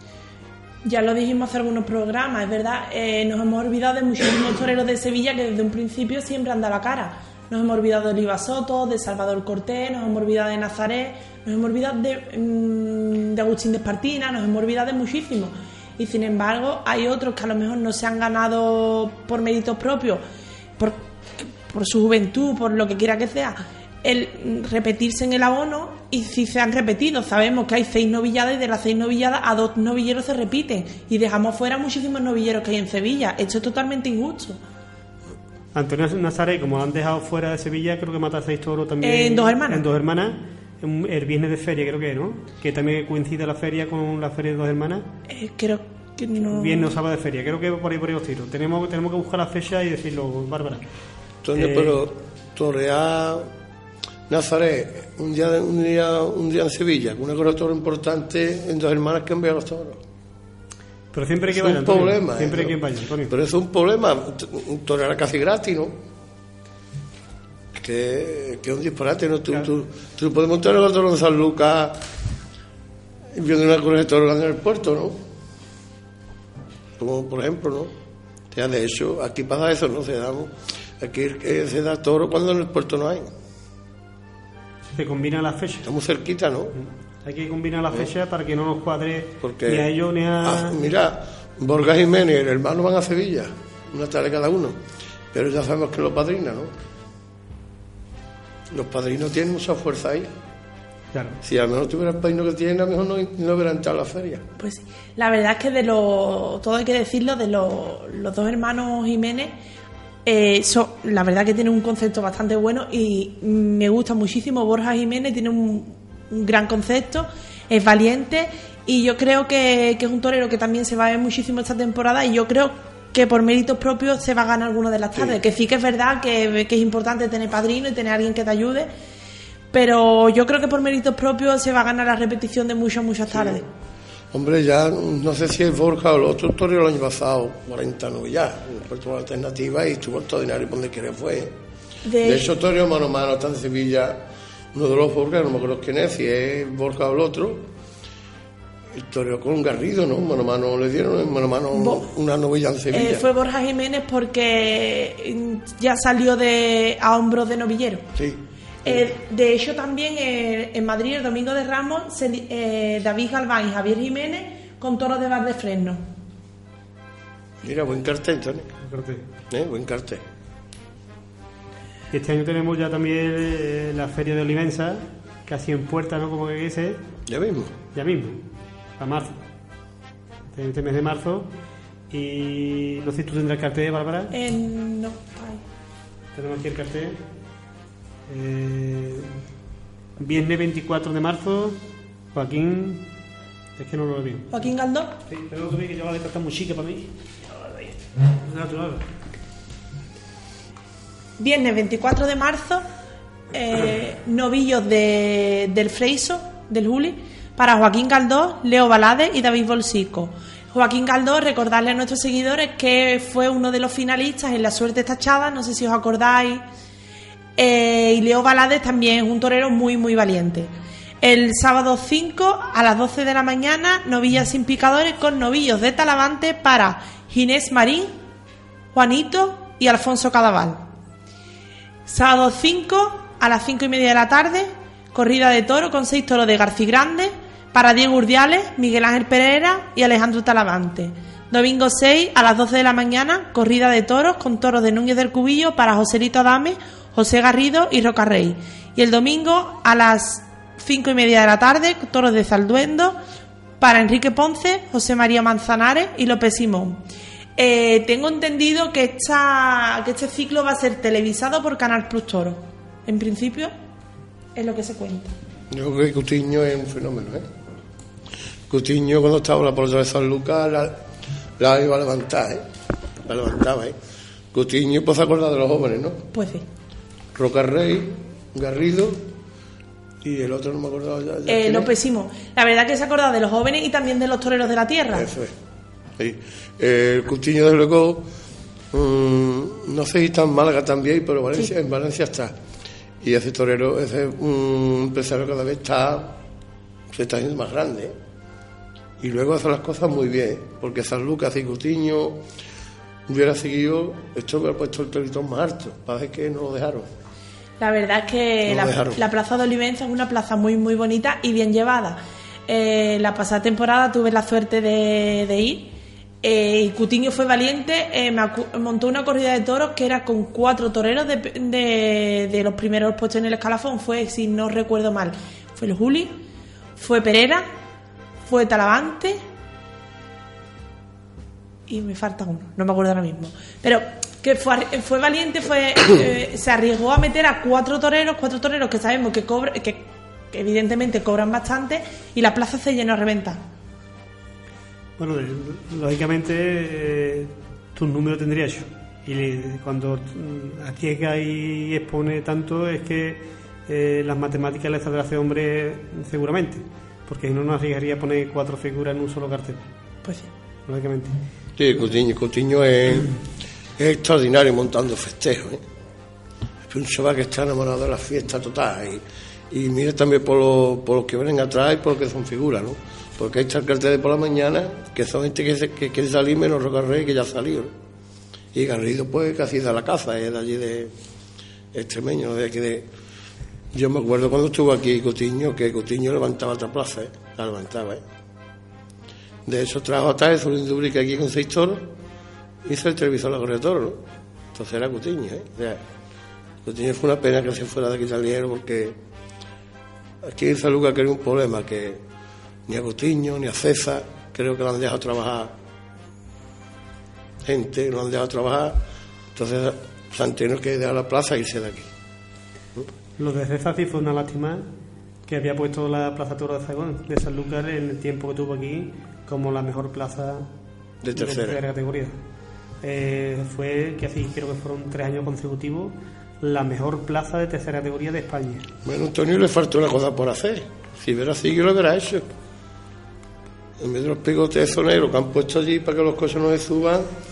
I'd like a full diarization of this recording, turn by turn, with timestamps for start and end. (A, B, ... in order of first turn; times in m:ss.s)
0:00.8-0:20.2 A
0:20.8-0:34.6 A
0:35.7-0:45.1 B
0:39.0-0:39.8 A
0:45.3-0:47.0 A
0:46.4-0:50.8 B
0:51.4-0:53.5 C
0:51.6-0:52.0 B
0:54.3-1:00.0 C
1:01.1-1:03.3 B
1:01.5-1:06.0 C
1:07.7-1:12.0 C
1:13.3-1:15.2 C
1:17.0-1:17.9 C
1:18.5-1:23.3 C
1:24.9-1:25.9 B
1:25.8-1:26.8 C
1:26.8-1:30.8 B
1:29.4-1:29.9 C
1:30.4-1:34.8 C
1:35.3-1:36.7 C
1:38.7-1:40.3 C
1:41.1-1:41.4 B
1:41.4-1:44.4 C
1:44.6-1:49.5 A
1:50.2-2:08.9 A
2:09.7-2:13.6 A
2:13.3-2:13.6 C
2:14.3-2:21.5 C
2:22.0-2:22.5 A
2:22.2-2:24.2 C
2:24.7-2:27.7 C
2:28.9-2:33.2 C
2:31.7-2:32.0 A
2:32.9-2:38.1 A
2:38.2-2:39.1 C
2:38.8-2:46.0 A
2:47.6-2:48.7 C
2:48.8-2:49.2 B
2:49.5-2:50.2 C
2:52.1-2:57.0 B
2:57.3-2:57.7 C
2:57.9-2:58.4 B
2:59.0-2:59.3 B
3:00.5-3:01.5 B
3:02.1-3:04.3 B
3:04.3-3:05.6 A
3:06.3-3:07.2 B
3:08.3-3:09.4 B
3:10.2-3:11.8 B
3:12.3-3:13.1 B
3:13.8-3:14.5 B
3:14.5-3:15.2 A
3:15.3-3:19.0 B
3:21.4-3:22.8 A
3:23.5-3:36.6 A
3:37.6-3:40.7 A
3:41.2-3:48.1 A
3:48.9-3:50.8 A
3:52.1-4:13.2 A
4:13.8-4:17.0 A
4:17.6-4:23.7 A
4:24.6-4:25.3 A
4:25.7-4:27.4 C
4:28.7-4:31.0 C
4:31.6-4:32.6 C
4:33.2-4:34.0 C
4:34.5-4:36.2 C
4:36.3-4:36.6 A
4:37.3-4:39.3 C
4:40.2-4:41.9 C
4:41.5-4:45.3 A
4:45.1-4:45.5 C
4:46.2-4:48.3 C
4:48.9-4:52.6 C
4:53.2-4:56.4 C
4:57.1-4:58.1 C
4:59.2-5:02.4 C
5:03.3-5:07.1 C
5:07.8-5:26.4 A
5:08.6-5:09.2 C
5:27.0-5:27.6 A
5:28.5-5:29.4 A
5:31.9-5:43.6 A
5:45.2-5:59.8 B
6:00.2-6:00.5 A
6:00.9-6:01.4 B
6:01.8-6:03.3 C
6:04.0-6:05.8 C
6:06.9-6:17.9 C
6:18.7-6:21.1 C
6:21.9-6:23.0 C
6:23.9-6:28.2 C
6:29.6-6:32.1 C
6:32.8-6:34.2 C
6:34.7-6:36.0 C
6:36.8-6:39.2 C
6:40.4-6:42.2 C
6:42.9-6:45.7 C
6:47.6-6:49.0 C
6:49.5-6:52.1 C
6:53.4-6:54.9 B
6:55.5-7:00.7 B
7:01.2-7:01.8 C
7:01.4-7:02.4 B
7:03.0-7:08.9 B
7:09.0-7:12.5 C
7:14.0-7:17.3 C